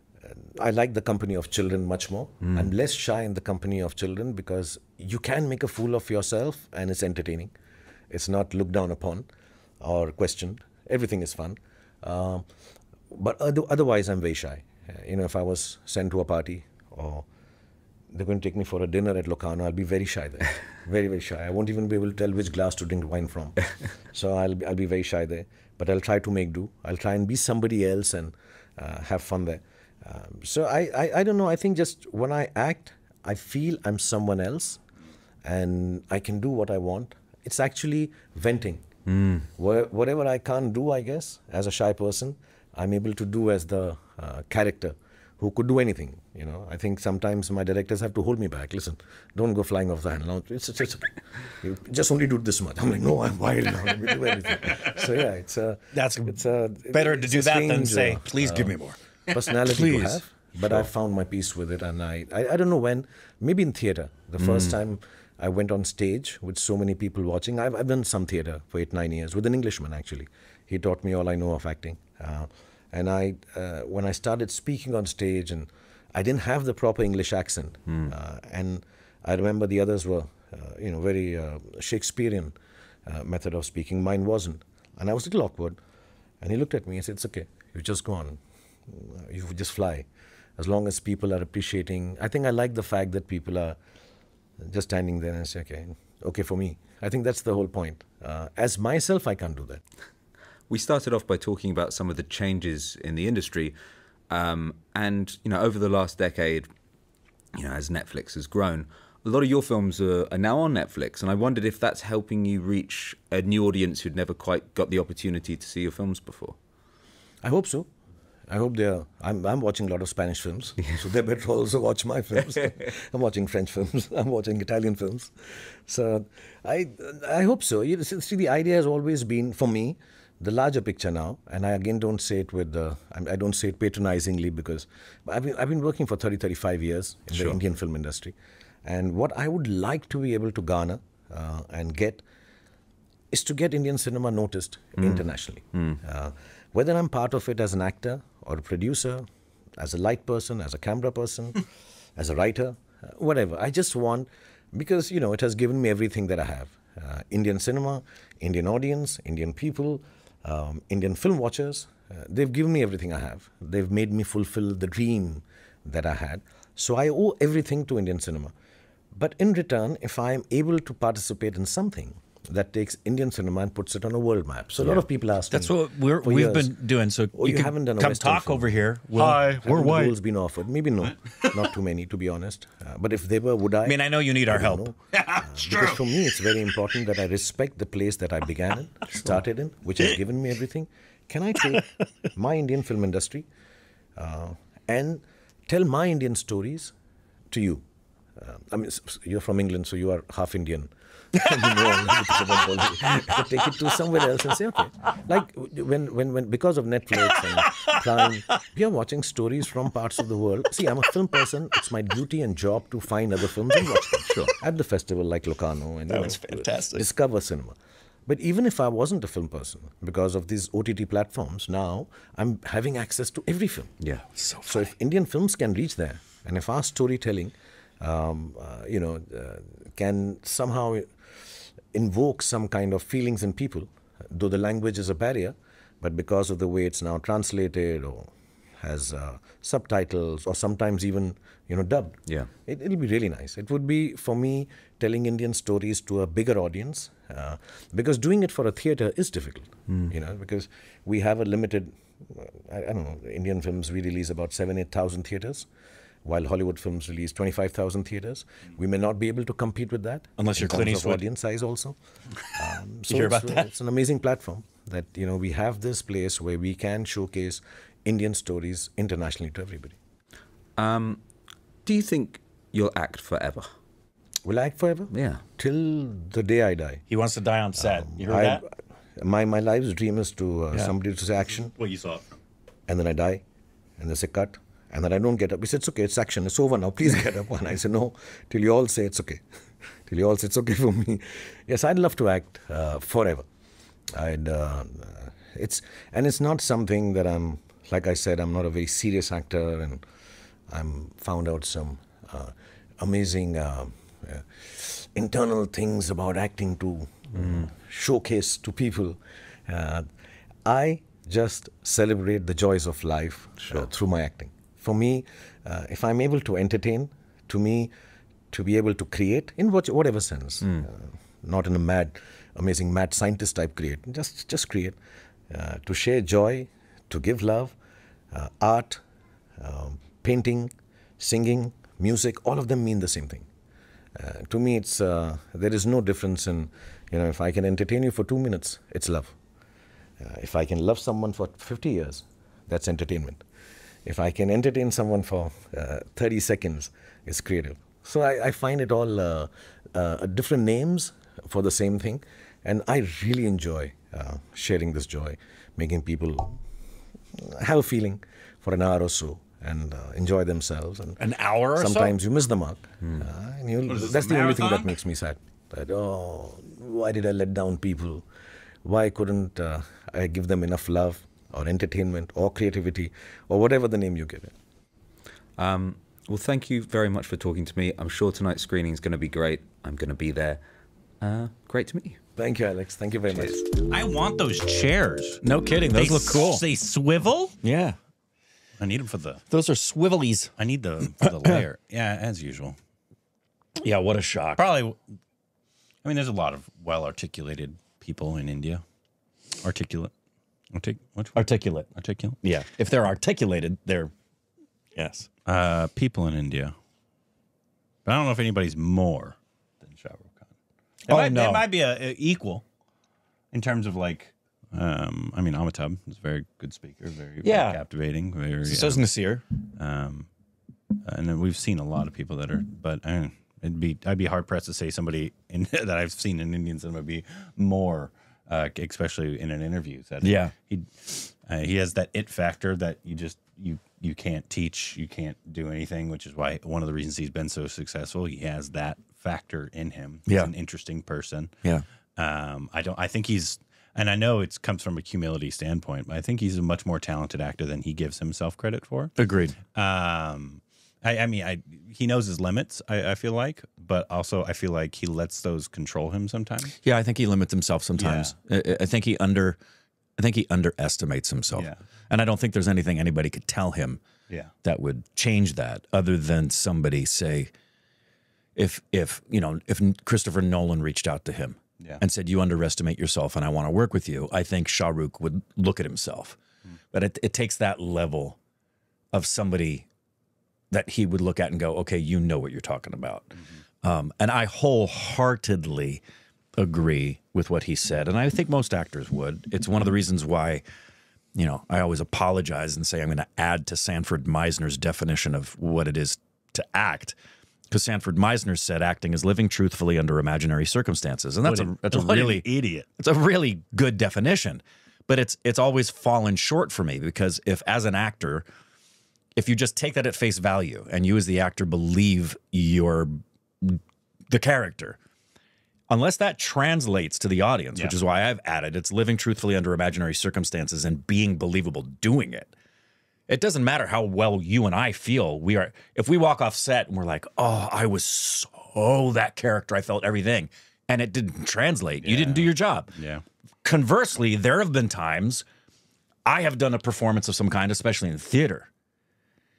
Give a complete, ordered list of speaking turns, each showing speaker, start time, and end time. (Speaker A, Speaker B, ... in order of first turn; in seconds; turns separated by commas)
Speaker A: 0.2-7.5, Speaker B: 2.4-2.7, Speaker A: 8.1-9.3, Speaker A: 9.8-12.4, Speaker A: 13.1-17.3, Speaker A: 18.1-34.8, Speaker A: 35.4-38.9, Speaker B: 39.1-39.5, Speaker A: 39.6-58.8, Speaker C: 55.9-56.4, Speaker C: 56.9-59.0, Speaker A: 59.3-82.5, Speaker C: 59.5-60.2, Speaker B: 64.4-64.7, Speaker B: 77.9-78.1, Speaker A: 83.0-85.8, Speaker A: 86.4-93.8, Speaker A: 94.6-99.8, Speaker B: 100.7-103.8, Speaker B: 104.3-106.7, Speaker B: 107.5-116.5, Speaker A: 117.4-117.9, Speaker A: 118.5-125.3, Speaker A: 125.9-142.2, Speaker A: 143.3-149.2, Speaker B: 145.7-146.0, Speaker A: 149.8-168.5, Speaker A: 169.1-176.8, Speaker C: 174.8-180.1, Speaker A: 177.3-193.5, Speaker D: 179.1-180.0, Speaker C: 183.8-185.9, Speaker A: 194.2-196.9, Speaker A: 197.5-197.8, Speaker A: 198.4-217.7, Speaker B: 214.2-214.5, Speaker C: 216.1-217.0, Speaker A: 218.2-223.9, Speaker C: 224.3-224.8, Speaker A: 224.6-231.1, Speaker A: 231.9-255.7, Speaker B: 249.9-250.1, Speaker A: 256.2-262.0, Speaker C: 260.4-261.2, Speaker A: 262.5-269.9, Speaker C: 263.1-263.6, Speaker B: 270.8-271.2, Speaker B: 271.9-273.7, Speaker A: 274.4-277.0, Speaker B: 275.1-275.4, Speaker C: 277.1-278.6, Speaker A: 277.8-278.6, Speaker A: 279.1-281.7, Speaker D: 281.7-282.2, Speaker A: 282.9-283.4, Speaker A: 284.0-289.4, Speaker A: 290.1-293.4, Speaker A: 294.1-300.0, Speaker A: 300.7-310.1, Speaker B: 307.4-307.6, Speaker A: 310.6-317.9, Speaker B: 313.6-313.9, Speaker A: 318.5-325.0, Speaker A: 325.5-327.8, Speaker A: 328.3-329.0, Speaker A: 329.6-333.5, Speaker A: 334.1-339.4, Speaker A: 340.2-343.4, Speaker A: 344.0-356.6, Speaker A: 357.4-368.2, Speaker C: 361.2-362.1, Speaker D: 363.9-364.9, Speaker A: 368.8-374.5, Speaker B: 375.6-380.6, Speaker B: 381.2-382.2, Speaker A: 382.4-383.6, Speaker D: 383.9-387.5, Speaker C: 385.4-386.6, Speaker C: 387.6-388.0, Speaker D: 388.8-389.4, Speaker C: 389.5-390.5, Speaker D: 390.6-392.8, Speaker C: 391.2-391.6, Speaker C: 393.8-394.7, Speaker D: 394.6-395.0, Speaker D: 396.0-398.8, Speaker D: 399.6-400.1, Speaker D: 400.7-402.4, Speaker C: 401.4-401.9, Speaker C: 402.4-404.1, Speaker C: 404.9-405.3, Speaker D: 405.4-406.7, Speaker D: 408.1-410.5, Speaker C: 411.1-411.7, Speaker D: 411.1-412.6, Speaker D: 413.5-419.1, Speaker C: 417.4-417.8, Speaker C: 418.6-419.4, Speaker D: 419.8-420.3, Speaker D: 421.0-441.5, Speaker C: 430.2-430.5, Speaker C: 440.3-440.5, Speaker D: 442.2-449.1, Speaker C: 449.1-449.6, Speaker D: 449.7-456.7, Speaker C: 456.8-459.6, Speaker D: 457.9-458.4, Speaker C: 460.2-464.0, Speaker C: 464.6-467.5, Speaker C: 468.6-476.4, Speaker C: 476.9-478.4, Speaker C: 479.1-479.9, Speaker C: 480.7-486.0, Speaker C: 486.6-490.6, Speaker C: 491.4-497.1, Speaker C: 497.7-508.5, Speaker D: 501.4-502.9, Speaker C: 509.4-515.0, Speaker C: 515.9-522.5, Speaker C: 523.3-532.9, Speaker D: 532.0-533.2, Speaker C: 533.6-535.4, Speaker C: 536.2-538.7